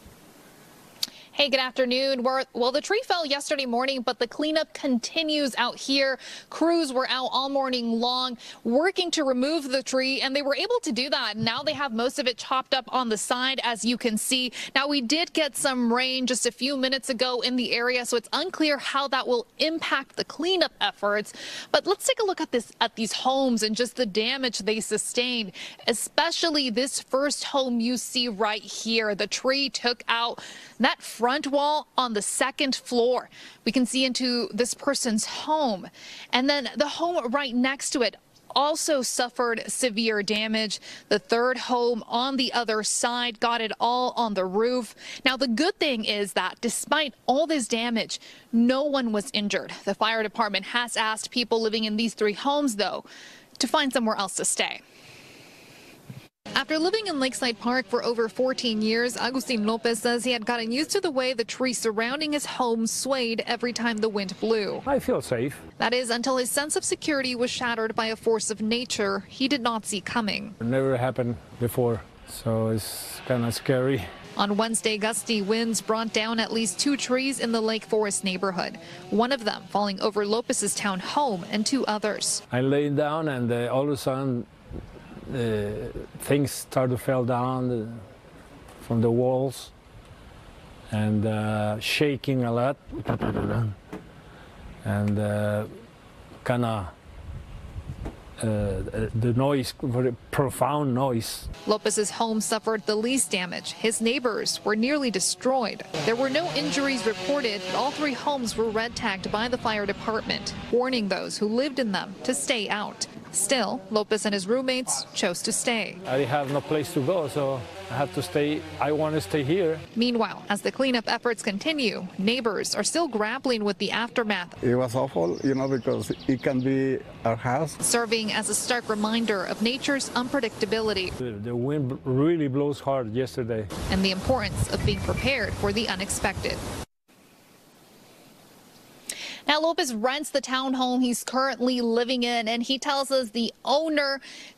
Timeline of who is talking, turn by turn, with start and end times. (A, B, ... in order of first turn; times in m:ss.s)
0:01.3-0:53.0 A
0:53.6-0:54.8 A
0:56.5-1:04.8 A
1:04.8-1:05.6 B
1:05.8-1:10.5 A
1:10.6-1:14.0 B
1:14.4-1:22.4 A
1:22.5-1:24.5 B
1:25.2-1:28.0 B
1:28.8-1:29.7 B
1:30.9-1:33.7 B
1:34.8-1:35.7 B
1:36.4-1:36.9 B
1:38.4-1:41.5 B
1:41.6-1:56.0 A
1:56.0-1:59.8 B
2:00.0-2:04.6 A
2:04.6-2:07.8 C
2:07.8-2:11.1 A
2:11.2-2:13.7 B
2:13.9-2:16.6 A
2:19.5-2:24.2 A